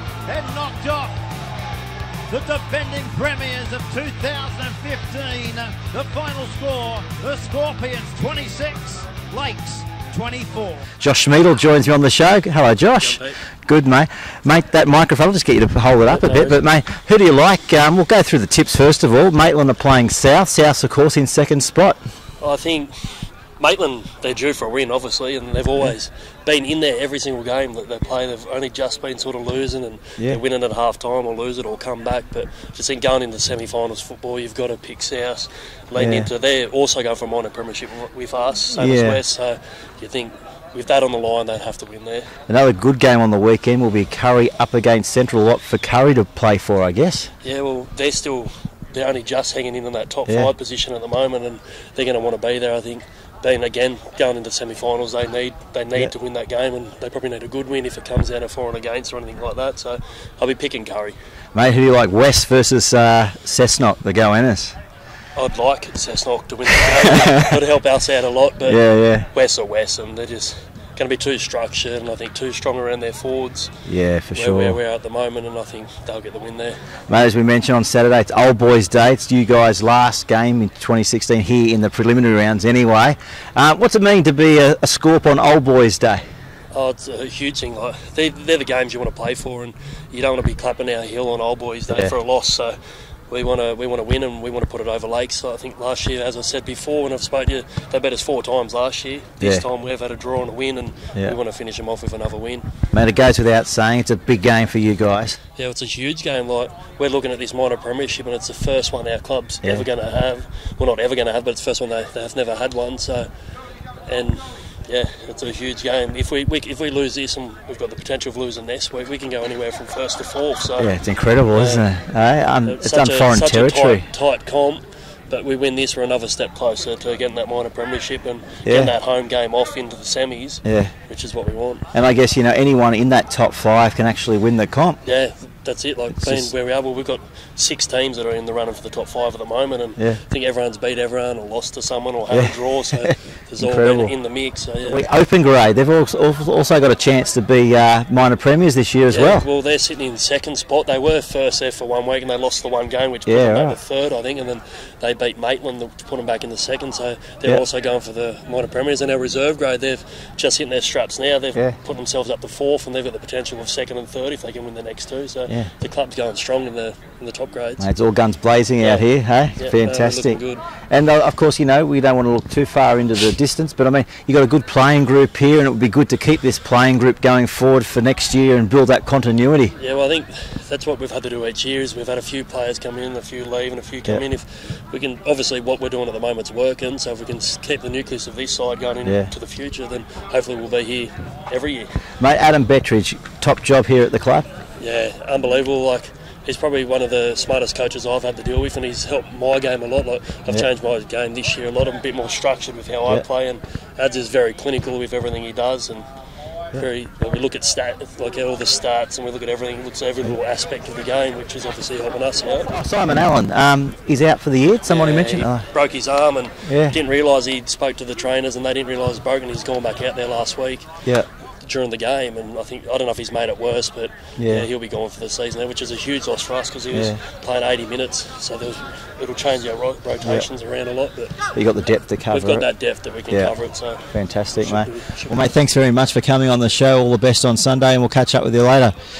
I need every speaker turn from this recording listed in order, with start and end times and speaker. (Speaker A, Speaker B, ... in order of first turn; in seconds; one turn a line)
Speaker A: 0.2-1.1
Speaker A: 2.3-10.9
Speaker B: 11.0-22.0
Speaker C: 13.0-13.4
Speaker C: 16.1-16.6
Speaker C: 22.4-42.3
Speaker B: 36.0-36.3
Speaker B: 38.7-39.2
Speaker B: 42.5-47.3
Speaker C: 47.4-61.2
Speaker B: 50.2-50.5
Speaker B: 61.5-64.8
Speaker C: 65.3-73.7
Speaker B: 66.8-67.6
Speaker B: 68.6-69.3
Speaker B: 73.8-74.8
Speaker C: 74.3-76.8
Speaker B: 77.1-86.2
Speaker C: 86.7-102.7
Speaker B: 91.9-92.1
Speaker B: 99.4-99.7
Speaker B: 102.9-105.4
Speaker C: 105.5-113.3
Speaker C: 114.1-120.9
Speaker B: 120.8-124.1
Speaker C: 121.5-121.9
Speaker C: 122.6-131.9
Speaker B: 128.6-128.9
Speaker B: 130.6-130.9
Speaker B: 131.9-135.0
Speaker C: 135.0-145.0
Speaker B: 136.2-136.5
Speaker B: 142.3-144.1
Speaker B: 144.8-149.5
Speaker C: 149.1-167.9
Speaker B: 153.2-153.8
Speaker B: 167.8-179.7
Speaker C: 168.8-170.7
Speaker C: 179.8-191.9
Speaker B: 189.0-189.3
Speaker B: 192.2-194.5
Speaker C: 194.8-206.0
Speaker C: 206.7-212.7
Speaker B: 212.5-215.7
Speaker C: 214.8-220.9
Speaker B: 216.6-217.0
Speaker C: 221.6-231.3
Speaker B: 224.4-224.7
Speaker B: 226.9-227.2
Speaker B: 230.2-230.5
Speaker B: 231.5-232.7
Speaker C: 232.3-235.4
Speaker B: 233.3-233.5
Speaker B: 234.1-238.9